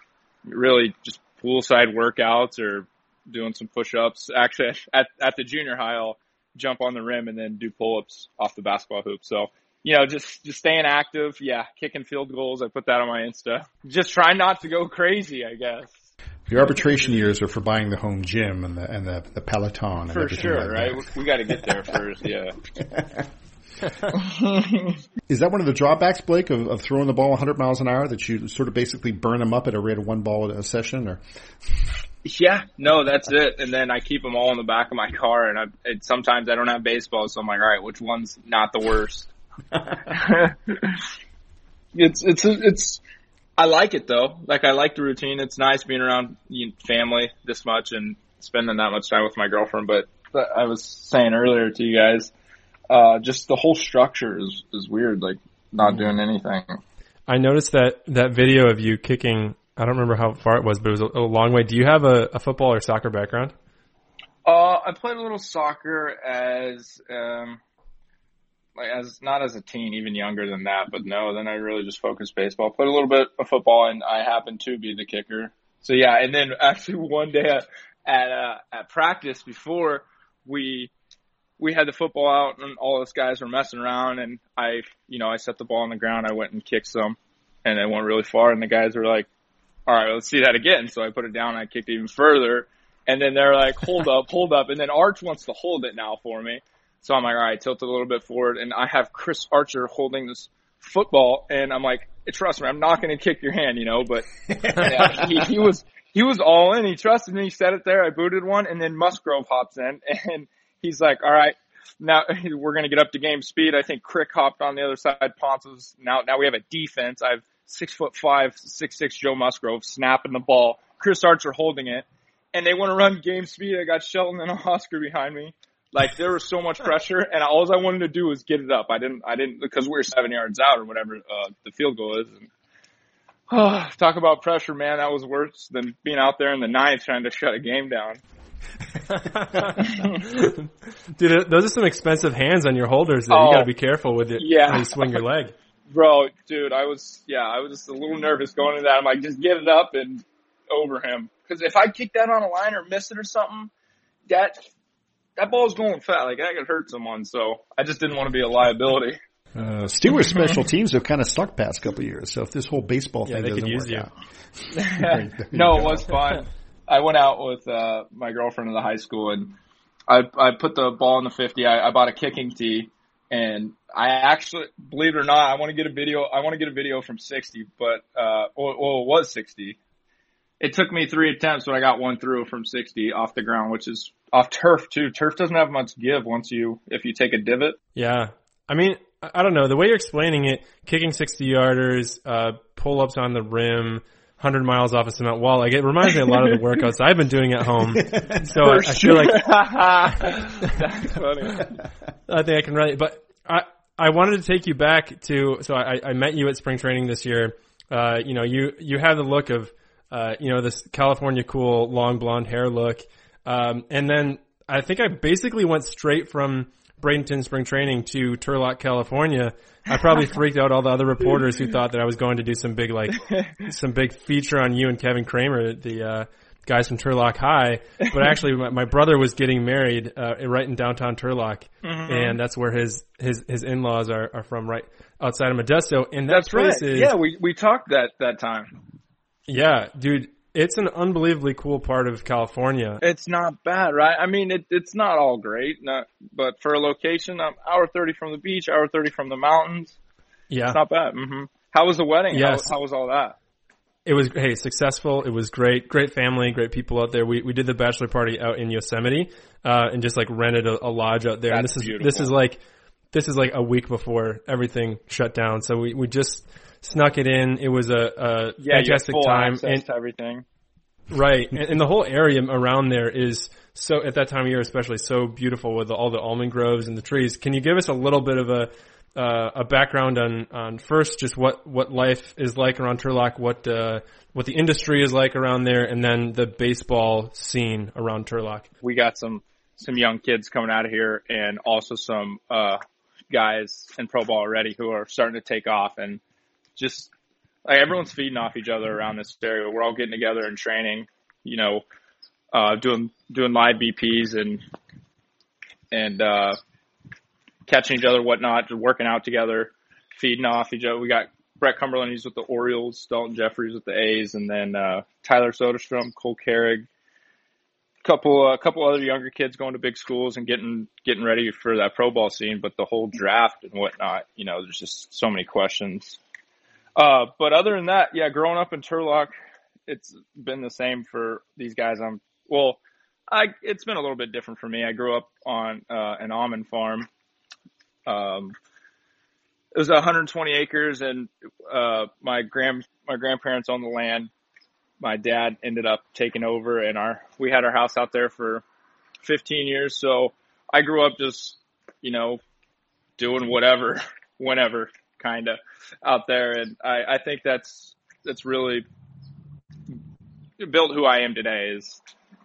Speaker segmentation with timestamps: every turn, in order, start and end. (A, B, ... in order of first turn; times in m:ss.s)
0:00.4-0:16.1 A
0:16.5-0:22.0 B
0:16.6-0:17.2 A
0:20.1-0:22.6 A
0:22.8-0:23.3 B
0:24.1-0:24.9 A
0:25.3-0:31.2 B
0:32.2-0:39.3 A
0:40.1-0:41.0 A
0:41.9-0:43.0 A
0:43.6-0:52.3 A
0:52.9-0:56.8 A
0:55.8-0:56.2 B
0:57.3-1:03.5 C
1:04.4-1:07.6 A
1:08.8-1:20.9 A
1:21.6-1:29.3 A
1:29.9-2:12.5 A
1:44.6-1:45.2 B
2:13.5-2:18.2 A
2:19.1-2:25.5 C
2:19.8-2:20.2 A
2:23.3-2:23.7 A
2:24.4-2:25.2 A
2:25.9-2:33.7 A
2:34.3-2:34.6 A
2:35.4-2:39.2 A
2:39.5-2:44.1 B
2:43.2-2:44.1 C
2:44.7-2:49.6 A
2:44.9-2:46.1 B
2:50.1-2:59.8 A
3:00.6-3:07.8 A
3:07.9-3:19.4 C
3:18.0-3:19.3 B
3:18.7-3:21.7 A
3:22.3-3:57.1 C
3:51.8-3:52.4 A
3:56.3-3:58.8 A
3:59.5-4:03.0 C
4:03.0-4:10.0 A
4:10.5-4:10.8 C
4:10.7-4:13.4 A
4:12.3-4:12.7 C
4:14.0-4:22.6 C
4:21.5-4:22.3 A
4:23.1-4:29.8 C
4:28.6-4:30.4 A
4:31.1-4:48.7 C
4:48.8-4:56.2 A
4:56.8-4:57.1 A
4:57.6-5:01.8 A
5:02.5-5:04.6 A
5:05.9-5:06.6 A
5:07.7-5:16.9 A
5:18.0-5:26.2 A
5:27.0-5:29.3 A
5:29.9-5:32.8 A
5:33.3-5:37.1 A
5:38.1-5:38.5 A
5:39.7-5:44.3 A
5:45.0-5:48.6 A
5:49.2-5:52.4 A
5:53.2-5:58.8 A
6:00.6-6:02.0 A